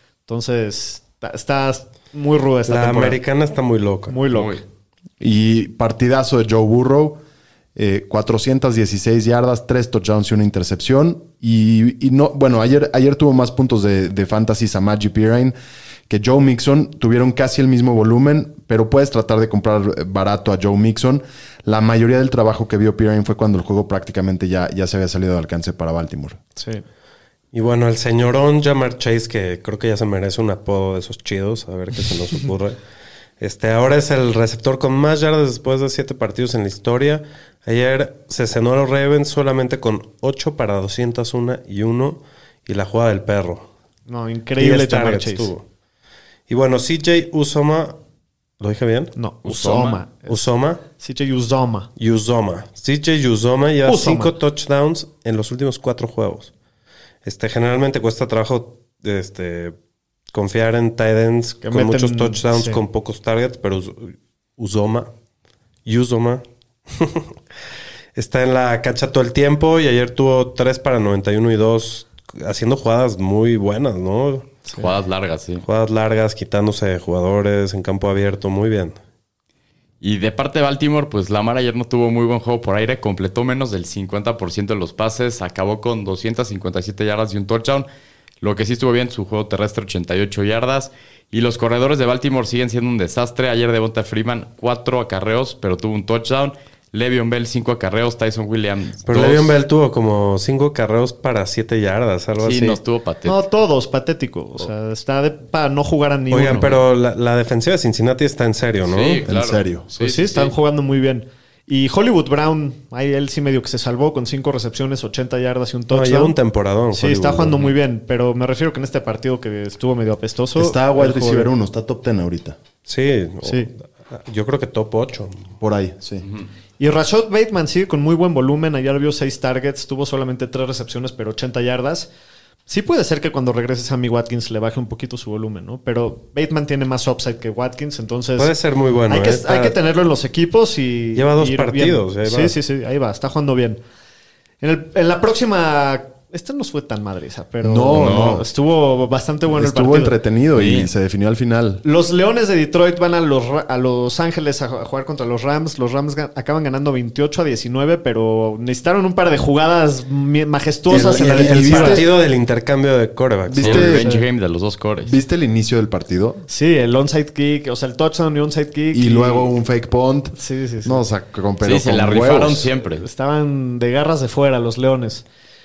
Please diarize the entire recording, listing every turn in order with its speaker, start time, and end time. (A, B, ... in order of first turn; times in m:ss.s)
0:00.3-0:03.2 A
0:02.7-0:04.2 B
0:04.1-0:04.6 A
0:04.3-0:04.6 C
0:05.2-0:07.2 D
0:07.8-0:15.5 D
0:16.1-0:26.4 D
0:26.6-0:26.8 A
0:27.5-0:32.8 B
0:33.4-0:43.7 B
0:44.1-0:45.5 A
0:44.6-0:45.6 B
0:46.5-0:48.0 B
0:48.6-0:49.1 B
0:49.1-0:51.9 A
0:49.4-0:50.0 C
0:50.3-0:50.8 B
0:52.0-0:56.5 B
0:53.8-0:54.3 A
0:57.2-0:59.8 B
1:00.3-1:05.1 B
1:01.6-1:02.8 A
1:05.8-1:07.3 B
1:08.1-1:14.6 B
1:14.7-1:15.6 C
1:15.6-1:19.0 B
1:20.0-1:27.9 C
1:28.4-1:39.5 C
1:39.0-1:42.8 B
1:42.4-1:43.4 C
1:43.2-1:46.8 A
1:46.3-1:49.2 B
1:48.9-1:50.5 C
1:49.2-1:49.9 D
1:50.0-1:56.3 A
1:55.9-1:57.6 B
1:56.9-2:01.5 A
2:00.6-2:02.6 D
2:02.8-2:05.5 B
2:03.4-2:03.7 A
2:05.6-2:06.2 D
2:06.8-2:12.1 A
2:12.7-2:18.5 A
2:18.4-2:19.7 B
2:19.1-2:23.8 A
2:21.1-2:22.6 B
2:24.6-2:30.2 A
2:27.6-2:28.4 D
2:27.9-2:28.4 C
2:29.5-2:31.8 D
2:30.5-2:30.9 C
2:31.8-2:42.0 A
2:40.9-2:42.1 D
2:40.9-2:44.0 B
2:43.4-2:44.1 D
2:43.6-2:45.2 C
2:44.0-2:44.2 A
2:45.0-2:46.4 D
2:46.5-2:49.5 A
2:48.9-2:52.7 D
2:50.4-2:51.0 A
2:51.6-2:53.0 C
2:52.9-2:55.2 A